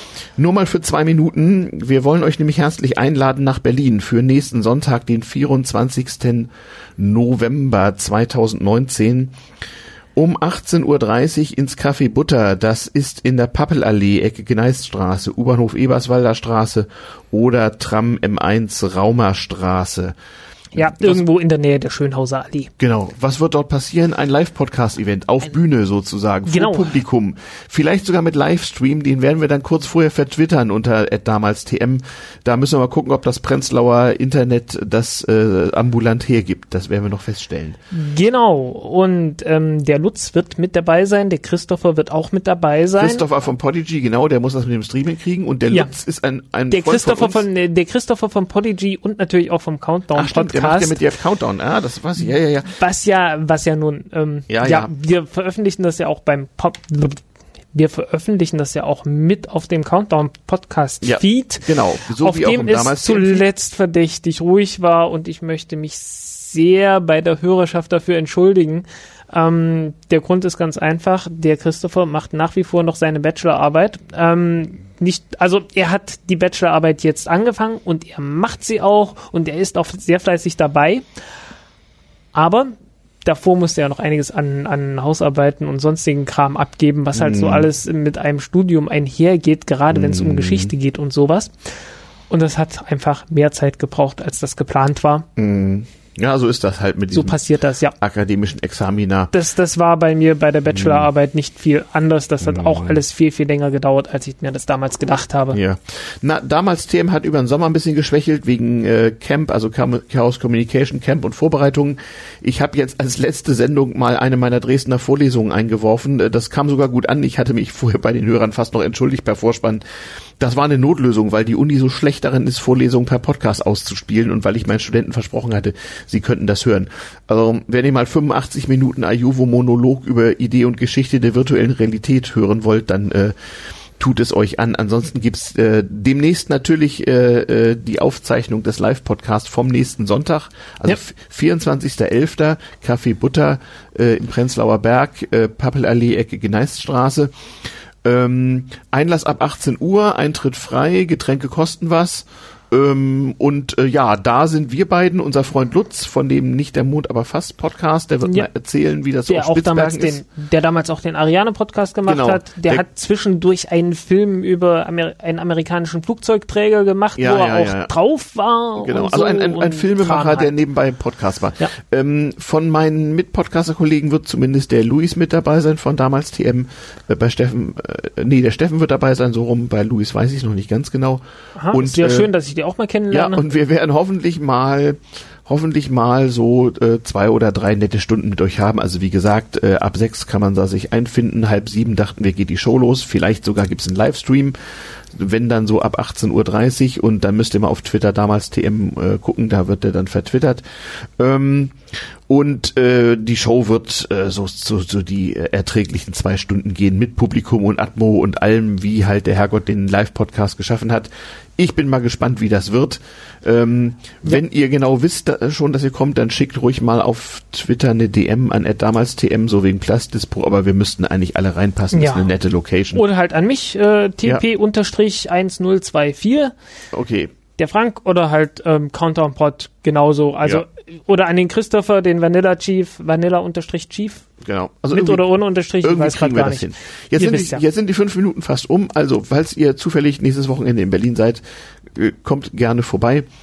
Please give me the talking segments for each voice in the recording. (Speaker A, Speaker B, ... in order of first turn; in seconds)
Speaker A: 0.4-9.3, 10.2-20.1, 20.7-21.2, 22.8-37.8, 43.0-47.4, 50.1-52.7, 54.5-54.9, 61.0-63.5, 87.2-87.7, 89.9-90.7, 95.4-97.4, 98.0-99.3, 100.7-101.1, 102.4-103.0, 105.5-119.8, 120.4-133.3, 134.0-147.3, 148.0-160.2, 162.1-162.8, 167.2-167.9, 168.8-182.3, 183.1-194.6, 195.2-200.6, 201.2-201.8, 202.3-223.0, 226.9-227.3, 234.4-235.2, 235.8-241.4, 241.9-243.3
Speaker B: 20.7-22.7, 26.5-26.9, 37.9-43.3, 46.7-51.0, 52.2-57.2, 57.7-81.0, 82.3-82.7, 83.2-91.5, 92.3-95.2, 97.1-98.0, 99.3-105.6, 159.3-170.5, 181.6-183.4, 221.9-222.3, 222.9-226.5, 227.6-234.2, 234.9-237.6